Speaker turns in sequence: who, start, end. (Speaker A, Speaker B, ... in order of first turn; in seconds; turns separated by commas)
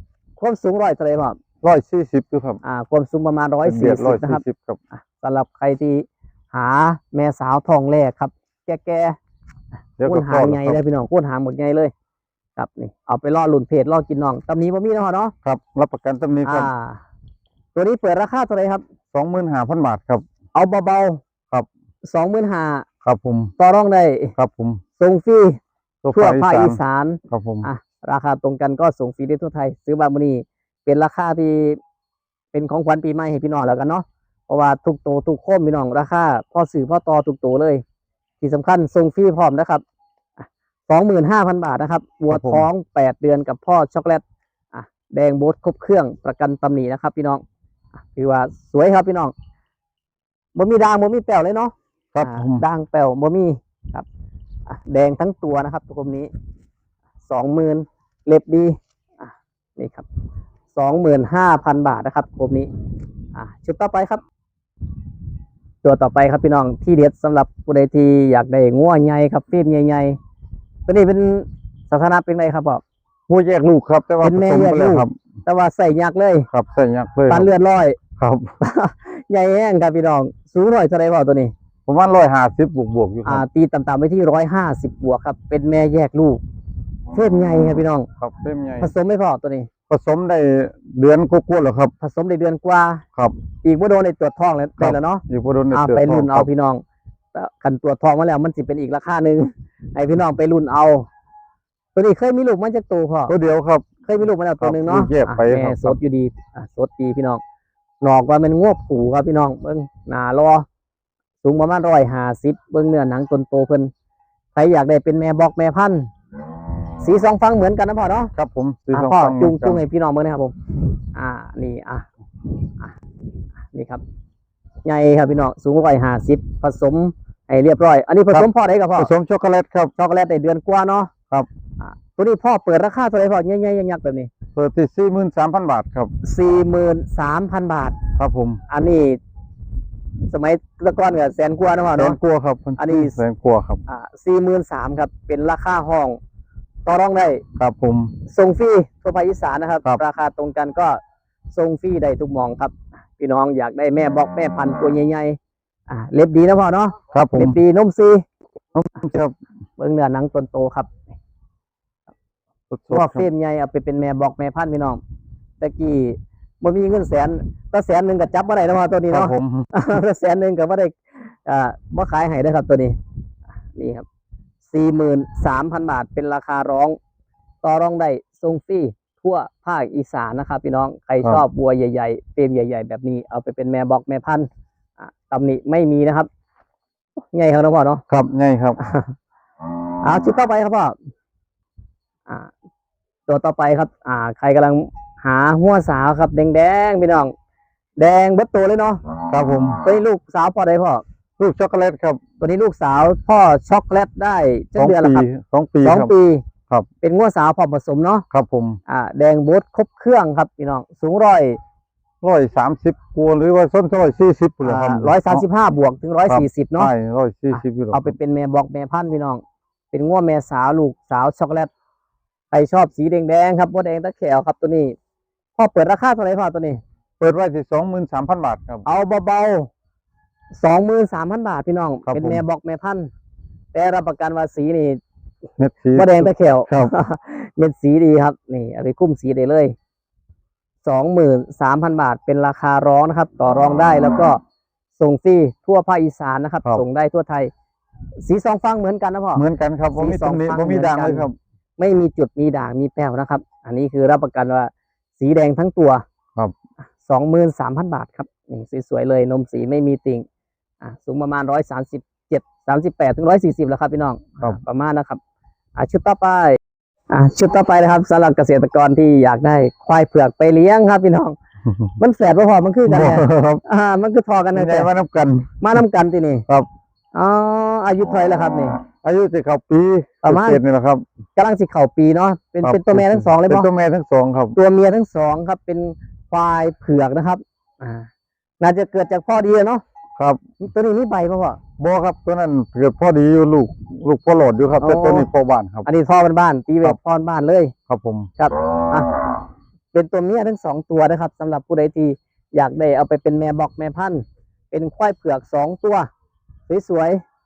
Speaker A: 0.4-1.4, Speaker B: 1.6-2.6, Speaker A: 2.6-4.4, Speaker B: 3.6-4.8, Speaker A: 5.0-9.2, Speaker B: 10.0-10.8, Speaker A: 10.0-11.9, Speaker A: 12.6-15.3, Speaker B: 15.4-16.7, Speaker A: 16.4-17.0, Speaker A: 17.7-18.8, Speaker B: 19.1-20.2, Speaker A: 20.5-21.2, Speaker A: 22.0-22.9, Speaker B: 23.0-23.5, Speaker A: 23.6-24.3, Speaker B: 24.4-24.8, Speaker A: 25.0-25.6, Speaker B: 26.0-27.7, Speaker A: 26.1-31.8, Speaker A: 32.5-37.8, Speaker A: 38.4-39.8, Speaker A: 40.4-47.4, Speaker B: 42.3-42.7, Speaker A: 48.1-49.3, Speaker A: 50.5-54.0, Speaker B: 52.1-52.6, Speaker A: 54.7-56.3, Speaker A: 57.3-60.0, Speaker A: 60.7-62.7, Speaker A: 63.3-64.2, Speaker A: 65.8-70.2, Speaker A: 70.9-72.8, Speaker B: 73.3-75.1, Speaker A: 74.2-76.5, Speaker B: 76.5-77.5, Speaker A: 77.3-78.0, Speaker B: 78.2-78.5, Speaker A: 78.6-81.5, Speaker B: 81.9-83.4, Speaker A: 83.2-86.4, Speaker A: 87.1-88.1, Speaker B: 88.2-88.9, Speaker A: 88.8-89.7, Speaker B: 89.9-91.9, Speaker A: 92.0-93.0, Speaker A: 93.6-96.8, Speaker B: 94.8-96.5, Speaker A: 97.3-101.1, Speaker A: 101.9-103.3, Speaker B: 103.3-103.9, Speaker A: 104.0-107.4, Speaker B: 104.6-106.0, Speaker A: 108.0-110.7, Speaker A: 111.4-113.9, Speaker A: 114.5-116.1, Speaker A: 117.0-118.3, Speaker B: 118.3-119.8, Speaker A: 118.9-120.6, Speaker A: 121.1-122.1, Speaker A: 123.7-124.0, Speaker A: 124.8-129.1, Speaker B: 129.0-129.9, Speaker A: 130.0-131.1, Speaker A: 131.8-134.3, Speaker B: 134.6-136.1, Speaker A: 136.2-137.9, Speaker B: 138.2-138.6, Speaker A: 138.7-139.2, Speaker A: 140.3-142.2, Speaker B: 141.9-143.8, Speaker A: 142.8-143.2, Speaker A: 143.9-146.2, Speaker A: 146.8-147.4, Speaker B: 147.6-148.1, Speaker A: 148.3-151.0, Speaker A: 151.5-155.4, Speaker A: 155.9-158.2, Speaker B: 157.1-157.6, Speaker B: 158.7-159.3, Speaker A: 159.8-160.9, Speaker B: 162.7-163.3, Speaker A: 162.9-165.0, Speaker A: 165.6-173.0, Speaker B: 169.1-169.7, Speaker A: 173.7-174.0, Speaker A: 174.7-177.0, Speaker A: 177.6-184.5, Speaker A: 185.0-186.3, Speaker A: 187.2-188.0, Speaker B: 188.1-188.8, Speaker A: 188.8-189.1, Speaker A: 190.0-190.9, Speaker A: 193.3-197.3, Speaker A: 198.0-199.0, Speaker B: 199.3-199.8, Speaker A: 199.8-201.0, Speaker B: 201.4-202.2, Speaker A: 202.4-205.2, Speaker B: 204.8-206.1, Speaker A: 205.8-206.4, Speaker A: 207.0-208.2, Speaker B: 208.3-208.8, Speaker A: 208.9-211.6, Speaker B: 212.2-215.4, Speaker A: 214.6-216.9, Speaker B: 216.3-218.1, Speaker A: 217.5-221.7, Speaker A: 222.5-224.9, Speaker A: 225.6-226.8, Speaker B: 227.2-228.8, Speaker A: 228.8-229.7, Speaker A: 230.6-233.1, Speaker B: 232.1-232.4, Speaker A: 233.7-235.0, Speaker B: 235.6-236.9, Speaker A: 235.9-239.7, Speaker A: 240.8-244.4, Speaker A: 245.0-247.5, Speaker A: 248.2-249.4, Speaker B: 249.3-251.3, Speaker A: 249.9-256.0, Speaker A: 257.0-260.2, Speaker A: 260.8-265.2, Speaker A: 265.8-266.6, Speaker A: 267.1-271.3, Speaker A: 272.0-274.9, Speaker B: 272.9-273.6, Speaker B: 274.5-275.6, Speaker A: 275.6-276.4, Speaker A: 277.1-278.8, Speaker B: 279.0-281.0, Speaker A: 280.2-280.6, Speaker A: 281.4-283.7, Speaker B: 282.6-284.6, Speaker A: 284.6-288.1, Speaker A: 288.6-289.8, Speaker A: 290.6-291.6, Speaker B: 291.8-295.9, Speaker A: 294.8-295.3, Speaker A: 295.9-297.7, Speaker B: 297.9-298.3, Speaker A: 298.4-299.1, Speaker A: 299.9-306.1, Speaker A: 306.7-307.2